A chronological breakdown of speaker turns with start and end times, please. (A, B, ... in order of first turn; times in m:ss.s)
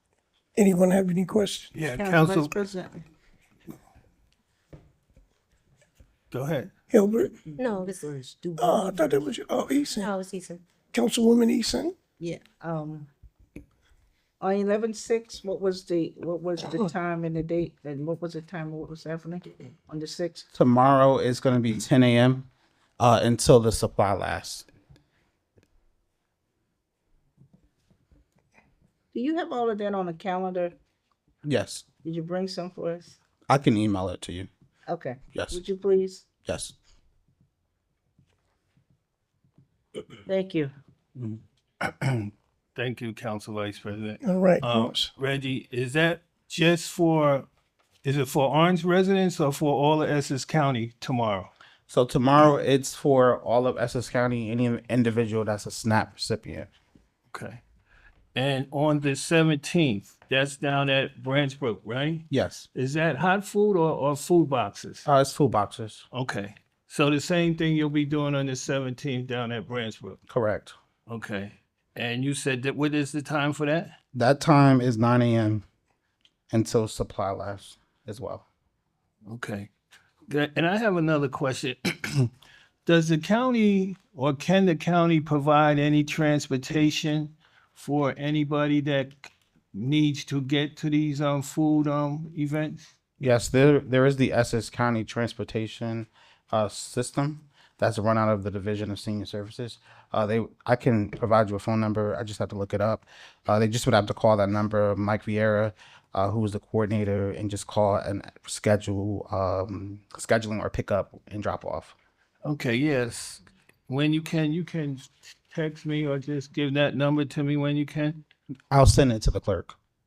0:00.6-0:01.7 A
0:01.7-0:02.5 B
0:01.9-0:03.1 C
0:06.3-0:06.7 B
0:06.9-0:07.4 A
0:07.5-0:09.3 C
0:07.6-0:08.9 D
0:08.6-0:10.1 A
0:09.9-0:10.6 D
0:10.9-0:11.9 A
0:12.2-0:13.1 C
0:14.4-0:20.5 C
0:20.5-0:24.7 E
0:29.1-0:30.7 C
0:31.4-0:31.9 E
0:32.0-0:33.2 C
0:33.5-0:34.5 E
0:34.9-0:36.3 C
0:35.3-0:35.6 E
0:36.4-0:36.8 E
0:40.3-0:40.7 C
0:41.8-0:47.5 B
0:44.2-0:45.1 A
0:48.0-0:51.5 B
0:51.9-0:56.7 E
0:57.3-0:57.6 B
0:58.4-1:05.1 B
1:02.3-1:02.7 E
1:05.0-1:06.1 E
1:06.1-1:10.2 B
1:10.3-1:10.8 E
1:11.1-1:14.0 B
1:14.1-1:15.6 E
1:16.5-1:18.5 E
1:19.3-1:19.7 B
1:20.3-1:22.3 B
1:22.9-1:32.9 B
1:33.2-1:52.0 E
1:52.4-1:58.2 B
1:58.7-1:59.8 E